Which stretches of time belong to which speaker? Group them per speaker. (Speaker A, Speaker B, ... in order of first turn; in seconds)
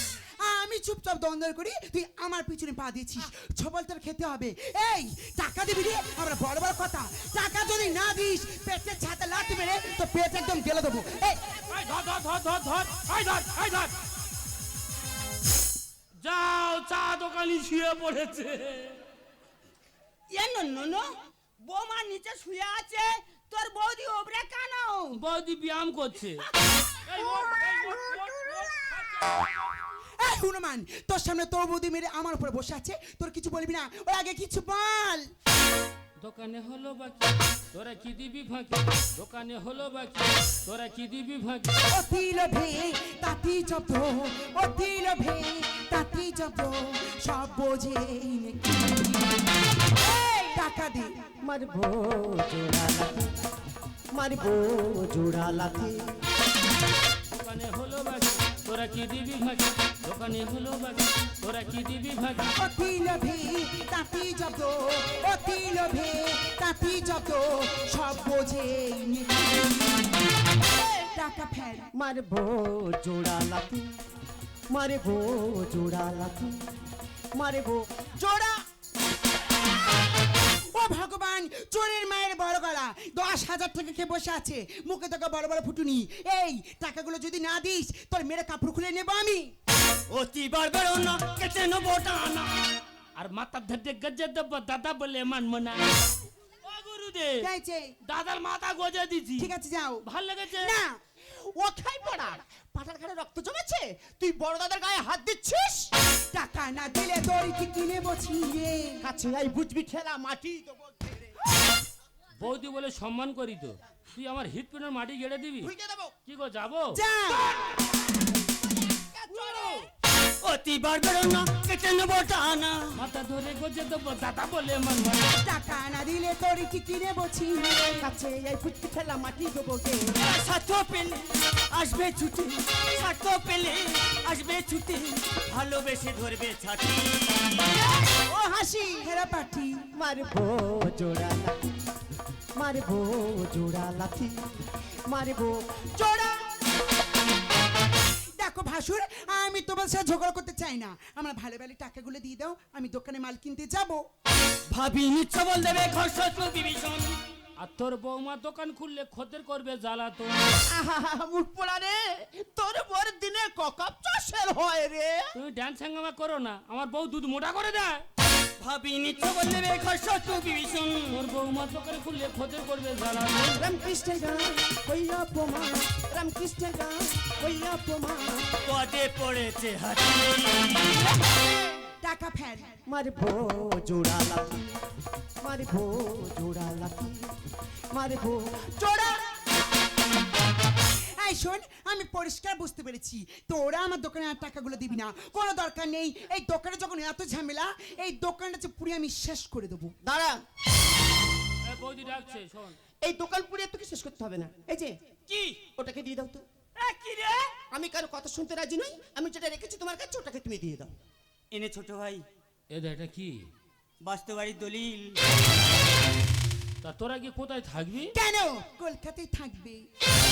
Speaker A: 0.4-11.5, 30.2-35.3, 41.9-49.4, 50.4-51.3, 62.6-70.2, 71.1-71.9, 80.7-89.5, 97.4-97.9, 99.4-100.0, 100.6-101.0, 106.3-109.0, 116.9-117.8, 125.4-128.0, 139.0-139.8, 148.4-154.0, 182.0-182.8, 188.9-189.2, 191.2-199.9, 218.1-219.8
Speaker B: 11.6-13.9, 16.2-19.0, 25.1-29.5, 36.2-41.7, 57.3-62.5, 93.2-96.1, 96.6-97.5, 98.1-99.5, 100.0-100.8, 112.4-115.7, 116.2-117.0, 122.9-125.3, 157.6-160.4, 165.3-168.1, 171.1-173.6, 201.6-202.8, 212.7-213.4, 216.8-218.1
Speaker C: 20.3-25.2, 90.1-92.7, 119.4-119.8, 120.4-122.9, 130.2-137.6, 154.7-157.2, 168.6-171.1, 178.6-181.0, 205.3-205.6, 206.8-207.5, 211.5-212.2, 214.0-215.2
Speaker D: 51.4-53.4, 54.1-56.1, 71.9-73.9, 74.7-76.5, 77.3-78.6, 101.2-105.9, 109.0-111.1, 115.6-116.1, 119.2-119.8, 127.9-130.2, 138.1-139.1, 139.9-141.7, 142.6-144.4, 145.1-146.5, 160.7-165.3, 173.6-178.5, 182.9-184.7, 185.4-187.3, 187.9-188.9, 200.0-200.4, 203.0-204.9, 205.8-206.4, 207.7-210.9